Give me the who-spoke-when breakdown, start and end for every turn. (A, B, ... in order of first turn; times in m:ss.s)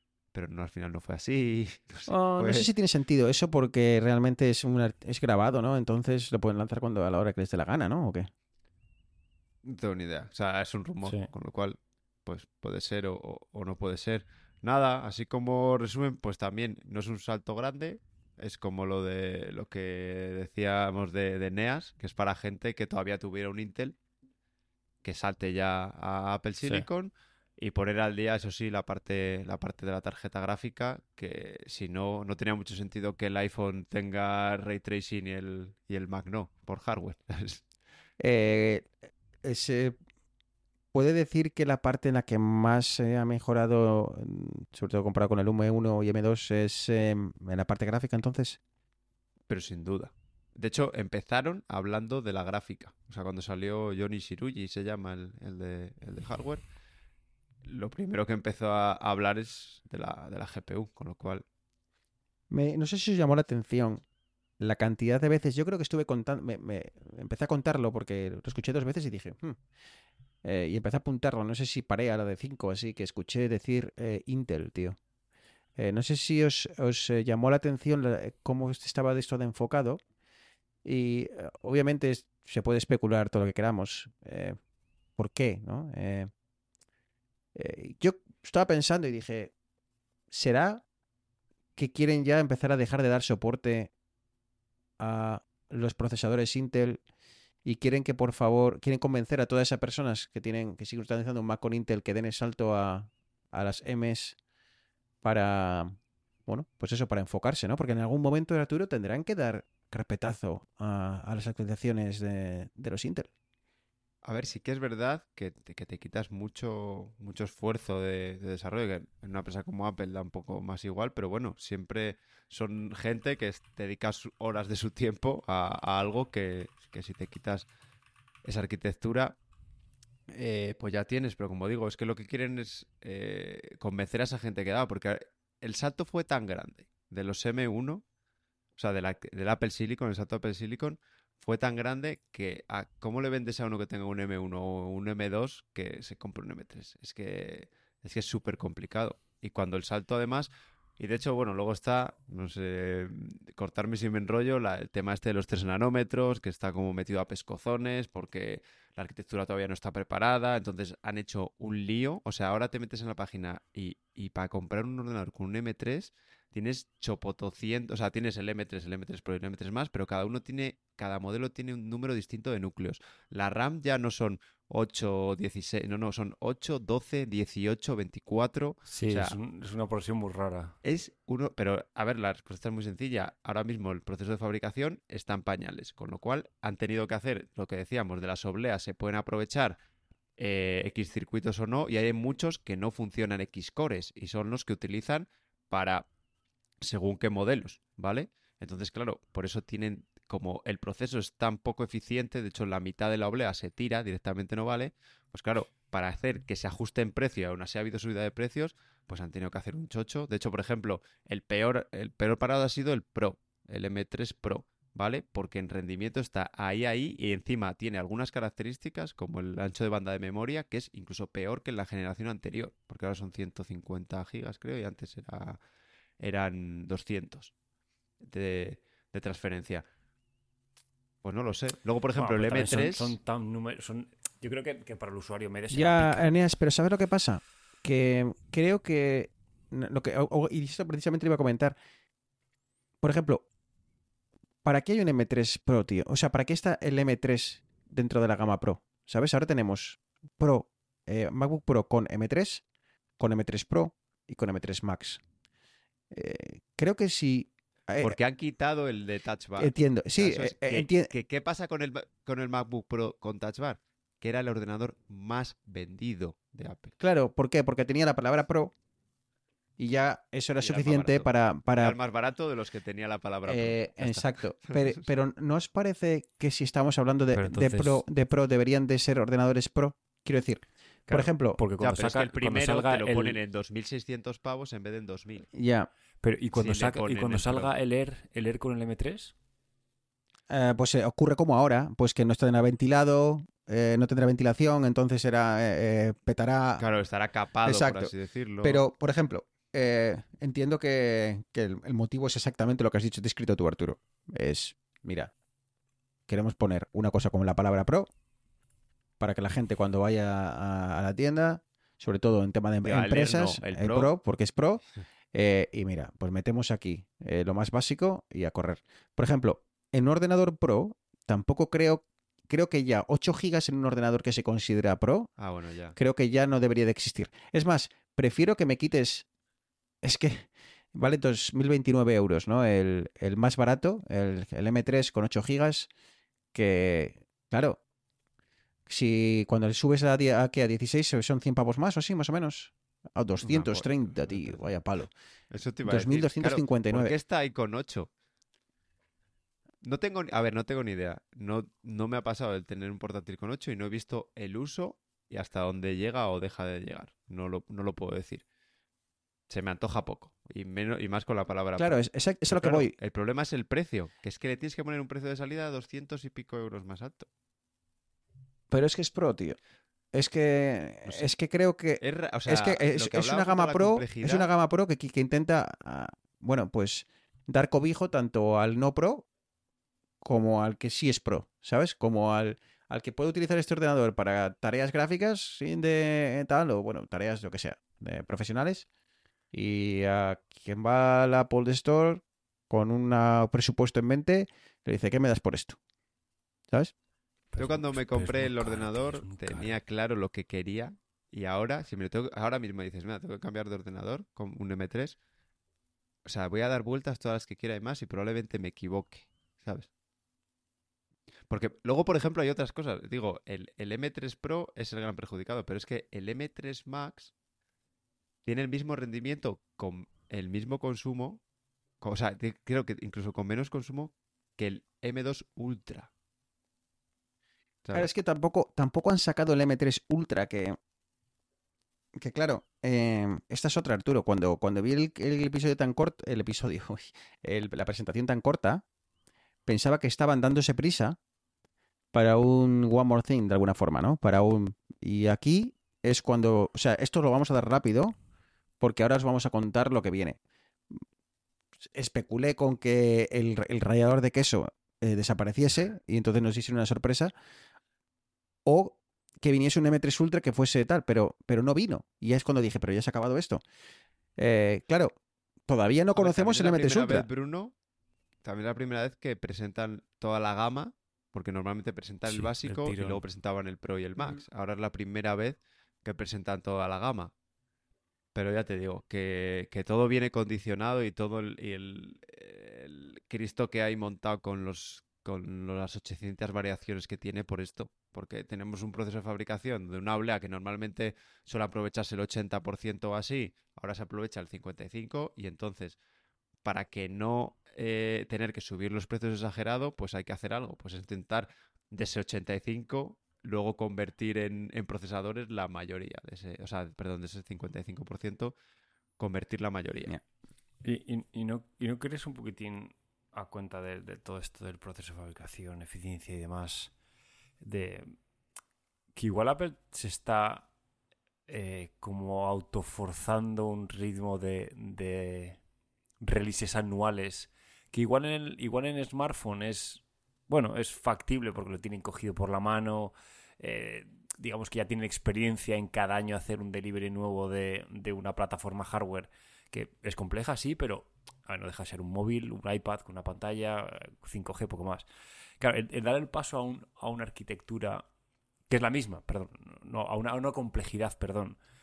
0:00.3-0:02.7 A
0:02.1-0:08.3 B
0:09.6-0:24.0 A
0:11.0-0:11.3 C
0:25.0-0:37.6 A
0:38.2-0:40.0 B
0:40.9-0:48.6 B
0:49.5-0:56.6 A
0:57.6-1:01.4 A
1:02.5-1:04.0 B
1:04.6-1:09.6 B
1:10.4-1:15.0 B
1:15.8-1:20.0 B
1:20.8-1:24.6 B
1:25.2-1:26.3 B
1:27.6-1:29.5 B
1:30.3-1:30.8 B
1:31.8-1:33.9 B
1:35.0-1:37.0 B
1:37.6-1:44.4 B
1:45.2-1:53.3 B
1:54.2-2:07.7 A
2:08.4-2:09.4 A
2:10.3-2:18.0 A
2:18.8-2:59.4 A
2:58.9-3:00.8 C
3:00.8-3:09.8 A
3:10.4-3:16.1 A
3:16.8-3:45.6 A
3:46.2-3:47.5 A
3:48.2-3:49.8 A
3:51.2-3:53.2 A
3:52.2-3:56.2 C
3:55.7-4:01.8 B
4:03.0-4:03.5 B
4:04.6-4:12.6 B
4:13.2-4:15.2 B
4:16.1-4:18.2 B
4:18.0-4:26.9 A
4:19.6-4:21.1 B
4:27.0-4:28.7 B
4:29.8-4:32.0 B
4:30.6-4:34.9 A
4:33.5-4:41.6 B
4:37.4-4:38.0 C
4:41.6-4:43.4 C
4:41.8-4:45.5 A
4:45.5-4:45.9 B
4:46.2-4:49.3 C
4:46.5-4:47.8 A
4:50.5-4:56.8 B
4:56.8-4:58.9 A
4:57.6-5:05.3 B
5:06.3-5:08.1 B
5:09.2-5:14.8 B
5:12.8-5:14.1 A
5:15.3-5:25.3 B
5:25.4-5:26.0 A
5:26.0-5:29.2 B
5:30.0-5:35.9 B
5:36.5-5:37.8 B
5:38.9-5:45.1 B
5:43.4-5:44.6 A
5:45.5-5:48.1 A
5:45.8-5:47.1 B
5:49.8-5:58.4 A
5:59.5-6:07.3 A
6:01.8-6:02.9 B
6:08.7-6:09.6 B
6:10.1-6:19.3 B
6:12.0-6:14.5 A
6:20.2-6:28.9 B
6:29.5-6:35.8 B
6:37.5-6:39.8 C
6:37.6-6:45.2 A
6:46.2-6:49.9 A
6:51.5-6:57.3 A
6:58.4-7:01.4 A
7:02.0-7:06.1 A
7:07.9-7:10.8 B
7:12.2-7:18.8 B
7:19.7-7:21.2 B
7:22.1-7:28.2 B
7:28.8-7:30.4 B
7:31.9-7:37.3 B
7:38.6-7:43.6 B
7:44.4-7:45.1 B
7:45.7-7:47.3 B
7:46.1-7:47.7 A
7:48.4-7:57.3 A
7:52.3-7:53.2 C
7:58.4-8:16.0 A
8:16.6-8:28.5 A
8:29.2-8:30.2 A
8:30.8-8:36.9 C
8:37.6-8:38.2 C
8:39.2-8:40.7 C
8:41.5-8:45.6 C
8:46.2-9:05.0 C
9:05.6-9:08.0 C
9:08.7-9:11.6 C